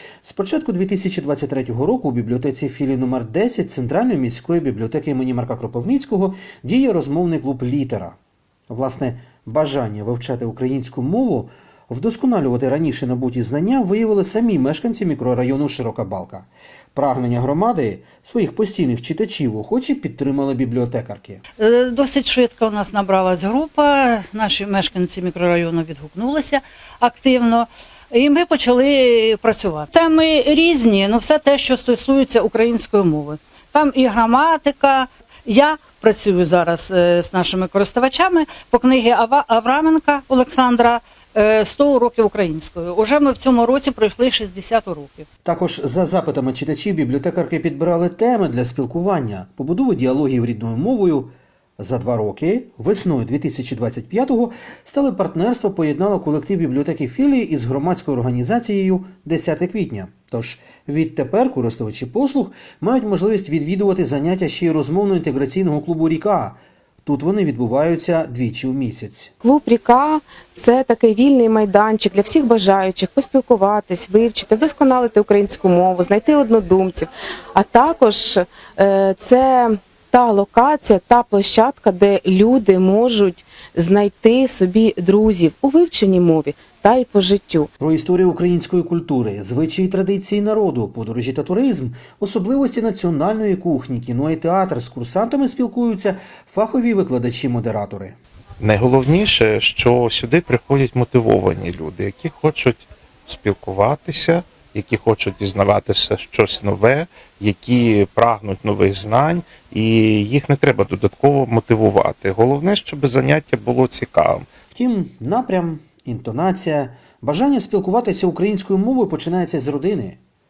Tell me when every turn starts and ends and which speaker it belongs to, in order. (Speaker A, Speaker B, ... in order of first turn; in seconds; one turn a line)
Speaker A: 0.2-8.2
Speaker A: 8.7-21.4
Speaker B: 21.6-45.3
Speaker A: 45.5-69.3
Speaker C: 69.4-87.7
Speaker A: 87.8-98.2
Speaker D: 98.7-102.7
Speaker D: 103.3-114.2
Speaker A: 114.7-120.2